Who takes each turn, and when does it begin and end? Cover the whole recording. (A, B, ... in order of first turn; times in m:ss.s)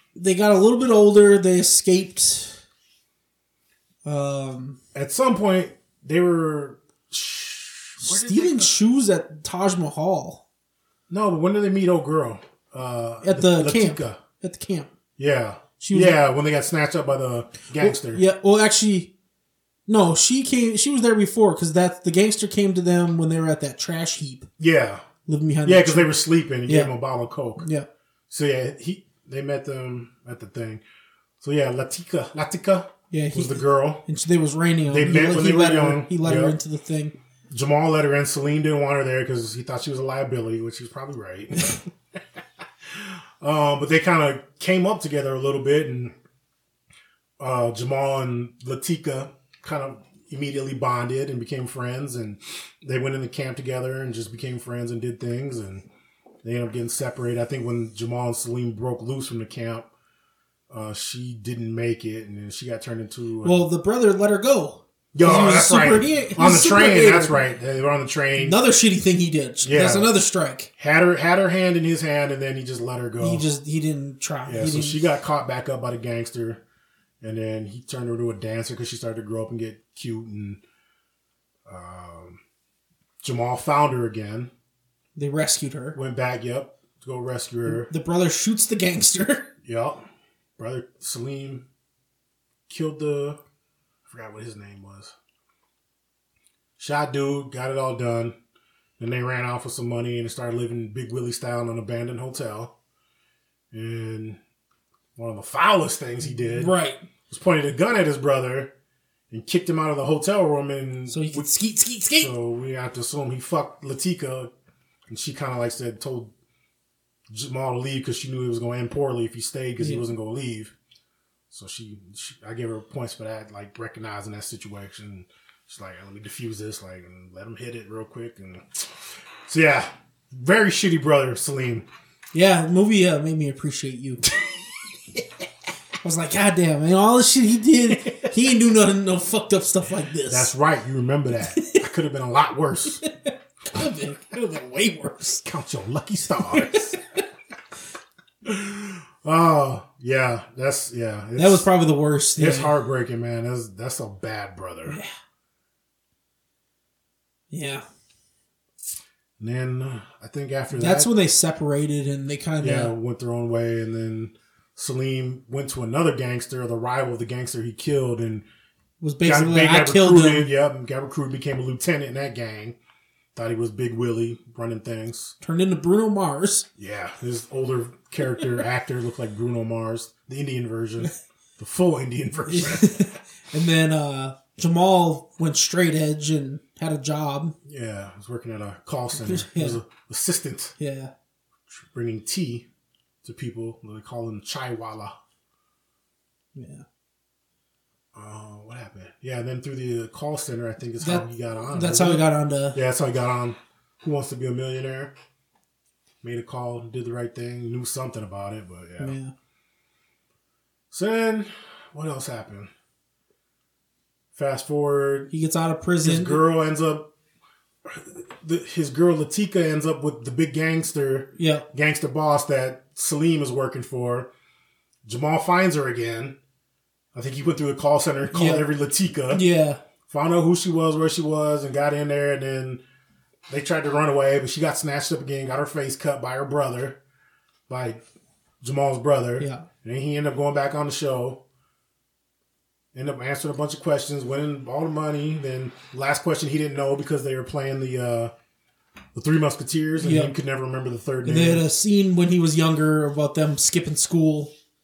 0:00.2-0:02.6 A
0:04.0-0:04.8 A
0:04.9-0:08.8 B
0:08.0-0:10.4 A
0:11.1-0:14.2 B
0:13.2-0:14.9 A
0:15.2-0:18.2 B
0:15.8-0:16.2 A
0:17.8-0:19.1 A
0:19.9-0:24.5 A
0:24.6-0:25.0 B
0:25.3-0:26.1 A
0:25.6-0:27.7 B
0:26.7-0:26.9 A
0:27.6-0:27.9 A
0:28.3-0:30.8 B
0:31.4-0:34.0 B
0:33.1-0:37.2 A
0:34.9-0:36.6 B
0:37.5-0:41.9 B
0:42.8-0:46.1 B
0:47.4-0:55.9 B
0:56.4-0:59.9 B
1:00.7-1:03.7 B
1:03.4-1:07.4 A
1:05.1-1:08.6 B
1:08.4-1:10.7 A
1:09.6-1:10.1 B
1:10.8-1:13.5 B
1:13.2-1:15.1 A
1:14.5-1:16.6 B
1:17.2-1:20.6 B
1:21.7-1:22.4 B
1:23.2-1:24.5 B
1:25.2-1:26.0 A
1:25.9-1:27.9 B
1:27.7-1:29.5 A
1:29.6-1:30.0 B
1:30.6-1:31.7 B
1:32.7-1:33.4 B
1:34.1-1:35.1 B
1:36.8-1:38.4 B
1:39.0-1:42.7 B
1:43.7-1:44.4 B
1:45.2-1:46.8 B
1:46.5-1:47.0 A
1:47.3-1:48.7 B
1:49.3-1:51.5 B
1:51.1-1:52.3 A
1:52.1-1:54.5 B
1:55.1-1:56.3 B
1:57.3-2:00.7 B
2:01.5-2:11.9 B
2:12.3-2:14.3 A
2:14.3-2:14.5 B
2:16.0-2:20.5 A
2:17.9-2:18.3 B
2:20.3-2:23.0 B
2:23.0-2:25.4 A
2:25.4-2:27.0 B
2:26.5-2:27.0 A
2:28.4-2:31.7 B
2:31.4-2:32.7 A
2:32.4-2:35.0 B
2:37.5-2:37.8 A
2:39.4-2:41.1 B
2:40.7-2:42.9 A
2:42.6-2:48.4 B
2:49.0-2:50.5 A
2:49.2-2:52.8 B
2:53.4-2:55.4 B
2:55.4-2:56.7 A
2:56.8-3:03.1 B
3:02.5-3:07.6 A
3:07.6-3:10.8 B
3:09.1-3:09.8 A
3:10.8-3:11.1 A
3:11.7-3:12.7 B
3:13.2-3:15.2 B
3:16.6-3:16.8 A
3:18.1-3:25.1 B
3:21.0-3:22.8 A
3:26.2-3:29.2 B
3:29.0-3:29.3 A
3:30.9-3:32.7 B
3:34.3-3:35.3 B
3:35.3-3:36.4 A
3:36.0-3:37.1 B
3:37.8-3:44.3 B
3:41.4-3:41.7 A
3:45.0-3:46.4 B
3:47.1-3:49.5 B
3:48.3-3:48.7 A
3:49.3-3:49.8 A
3:50.1-3:52.8 B
3:53.5-3:57.0 B
3:57.7-3:58.0 B
3:58.6-4:01.4 B
3:59.4-3:59.7 A
4:02.9-4:08.3 B
4:09.2-4:11.6 B
4:10.0-4:10.3 A
4:11.2-4:14.5 A